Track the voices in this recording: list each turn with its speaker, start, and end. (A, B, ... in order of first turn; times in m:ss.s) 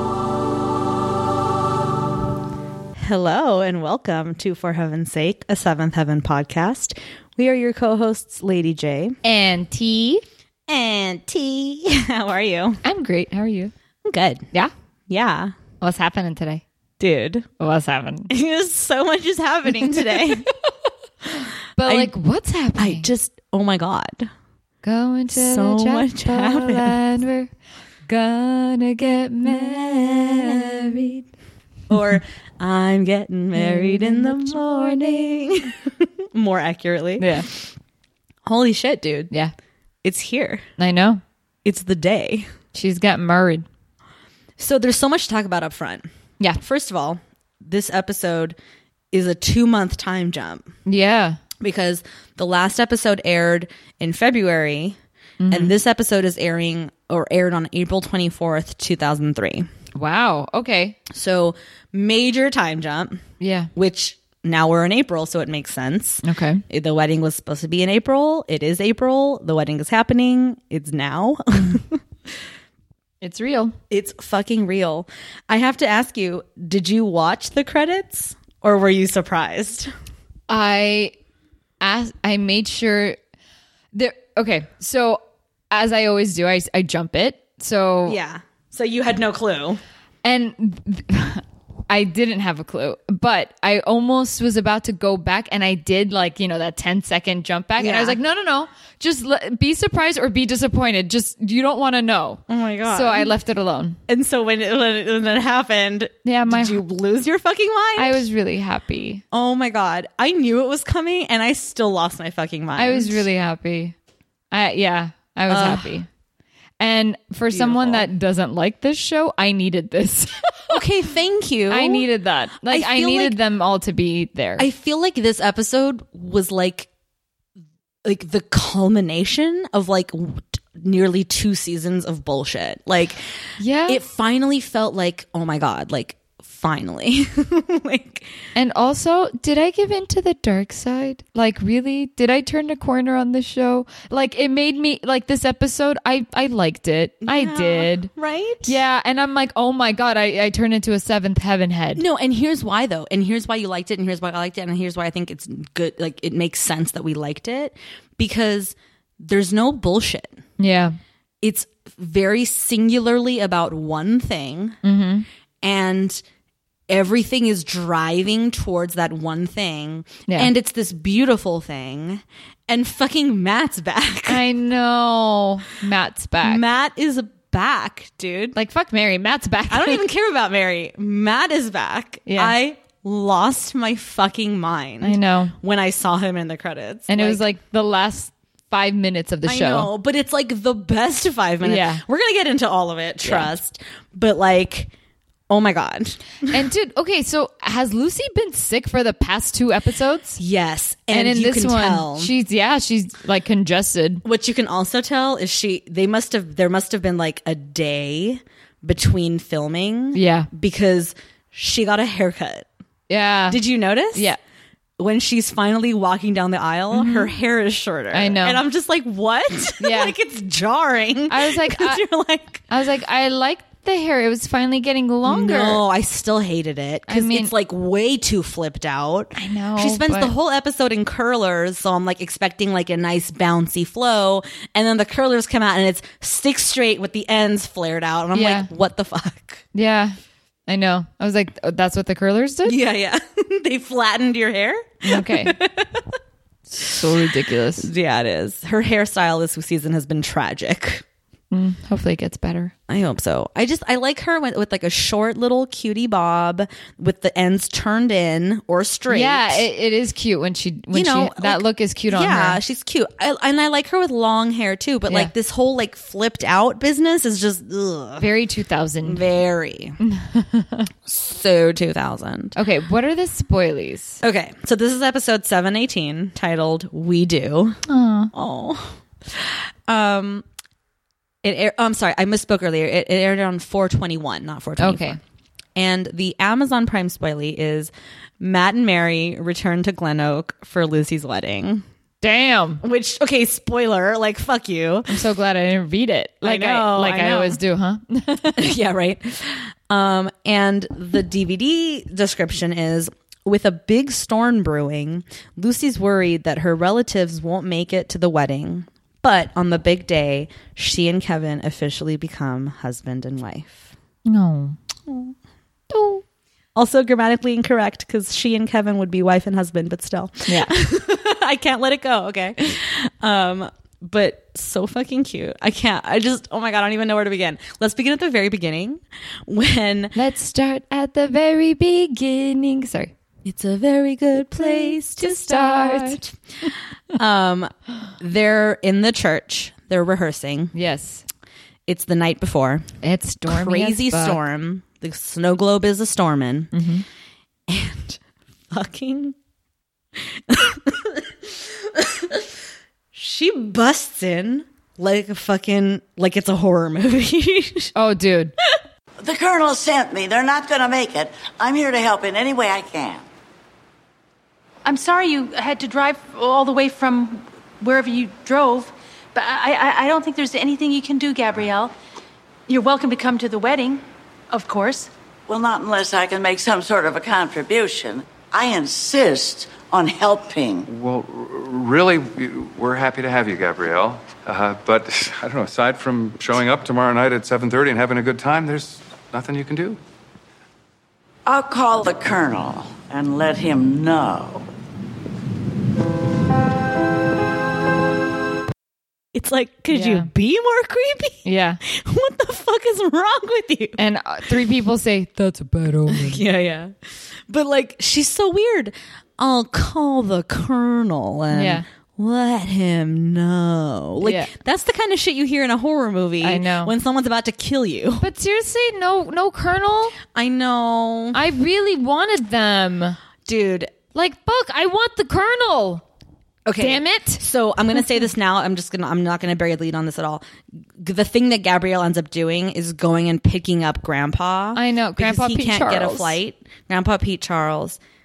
0:03.0-0:09.2 A
0:09.2-0:10.2 B
0:10.7-0:12.8 A
0:12.8-0:13.7 B
0:14.0-0:14.5 A
0:15.1-0:15.6 A
0:15.8-0:16.6 B
0:17.0-0:17.5 A
0:17.6-0:18.3 B
0:18.3-0:20.5 A
0:19.9-0:20.2 B
0:21.4-0:23.1 B
0:21.8-0:22.1 A
0:22.8-0:24.3 A
0:24.8-0:27.5 B
0:25.3-0:27.0 A
0:28.1-0:30.9 B
0:29.4-0:31.3 A
0:31.9-0:37.7 A
0:33.6-0:35.4 B
0:37.2-0:37.5 B
0:38.4-0:39.3 A
0:40.0-0:40.6 A
0:40.8-0:41.2 B
0:41.6-0:42.5 A
0:42.7-0:43.6 B
0:44.6-0:48.6 A
0:49.1-0:50.7 A
0:50.9-0:51.4 B
0:51.6-0:55.0 A
0:55.4-0:55.7 B
0:55.5-0:59.7 A
1:00.0-1:01.0 B
1:01.1-1:03.2 A
1:03.4-1:03.7 B
1:03.8-1:12.0 A
1:06.2-1:06.6 B
1:13.2-1:13.8 B
1:13.9-1:19.9 A
1:20.5-1:21.1 B
1:21.8-1:23.2 B
1:23.9-1:28.2 B
1:28.1-1:29.8 A
1:30.2-1:44.0 B
1:37.8-1:38.2 A
1:42.5-1:43.3 A
1:44.1-1:48.2 A
1:46.2-1:46.8 B
1:48.0-1:49.2 B
1:49.3-1:53.3 A
1:52.8-1:54.0 B
1:54.5-1:56.1 B
1:55.5-1:56.0 A
1:56.8-2:00.5 B
1:57.5-1:58.1 A
2:00.7-2:02.1 A
2:01.7-2:04.7 B
2:02.6-2:03.4 A
2:04.6-2:06.9 A
2:08.0-2:13.3 A
2:13.6-2:14.0 B
2:13.9-2:18.4 A
2:18.6-2:28.1 B
2:27.2-2:28.8 A
2:28.6-2:32.0 B
2:32.0-2:40.4 A
2:40.6-2:41.0 B
2:41.4-2:44.8 A
2:44.8-2:45.3 B
2:45.6-2:46.2 A
2:46.9-2:54.4 A
2:54.3-2:56.6 B
2:56.4-2:58.6 A
2:58.6-3:00.0 B
2:59.7-3:07.5 A
3:02.3-3:02.6 B
3:05.0-3:05.5 B
3:07.1-3:09.9 B
3:09.4-3:14.9 A
3:11.6-3:12.0 B
3:13.2-3:13.5 B
3:15.5-3:16.6 A
3:16.5-3:20.4 B
3:20.4-3:22.3 A
3:21.1-3:24.2 B
3:24.2-3:32.7 A
3:30.1-3:30.5 B
3:33.1-3:33.6 B
3:33.5-3:34.3 A
3:35.0-3:42.7 A
3:36.9-3:37.3 B
3:38.1-3:38.6 B
3:39.8-3:40.1 B
3:41.3-3:42.0 B
3:42.7-3:45.8 B
3:45.3-3:59.6 A
3:47.1-3:47.5 B
3:49.4-3:50.3 B
3:58.3-3:58.7 B
3:59.7-4:00.2 B
4:00.7-4:02.8 B
4:02.6-4:06.1 A
4:05.0-4:05.6 B
4:06.7-4:07.9 B
4:07.8-4:11.0 A
4:11.5-4:12.7 B
4:12.9-4:19.7 A
4:19.1-4:22.6 B
4:20.9-4:28.3 A
4:28.2-4:29.2 B
4:29.0-4:30.0 A
4:30.0-4:30.9 B
4:31.1-4:32.6 A
4:32.6-4:34.2 B
4:34.2-4:37.8 A
4:37.9-4:38.3 B
4:38.3-4:40.4 A
4:41.4-4:45.2 A
4:44.8-4:45.2 B
4:45.8-4:51.8 A
4:52.2-4:52.8 B
4:52.8-4:55.2 A
4:55.1-4:58.7 B
4:56.4-4:57.6 A
4:58.6-5:13.9 A
5:14.3-5:14.8 B
5:15.1-5:15.3 A
5:15.9-5:16.2 B
5:16.8-5:30.2 A
5:20.5-5:20.7 B
5:30.2-5:33.1 B
5:33.4-5:36.4 A
5:34.6-5:36.2 B
5:37.1-5:40.7 A
5:40.7-5:41.2 B
5:41.9-5:42.9 A
5:43.0-5:44.4 B
5:43.5-5:46.7 A
5:46.7-5:47.0 B
5:47.7-5:48.2 A
5:48.7-5:49.4 A
5:50.4-5:52.5 A
5:53.1-5:57.9 A
5:58.0-5:58.5 B
5:59.2-6:03.2 C
6:04.8-6:11.9 D
6:12.7-6:15.1 D
6:15.5-6:20.9 C
6:20.9-6:30.0 E
6:31.5-6:34.7 C
6:39.3-6:44.0 A
6:39.9-6:40.3 B
6:41.4-6:41.8 B
6:44.0-6:46.4 B
6:46.1-6:58.3 A
6:51.5-6:51.8 B
6:54.2-6:54.5 B
6:56.4-6:56.9 B
6:58.2-7:00.2 B
7:00.3-7:01.4 A
7:01.3-7:03.2 B
7:03.5-7:03.9 A
7:04.1-7:06.0 B
7:06.7-7:10.4 A
7:06.8-7:07.4 B
7:11.0-7:18.0 A
7:14.8-7:16.4 B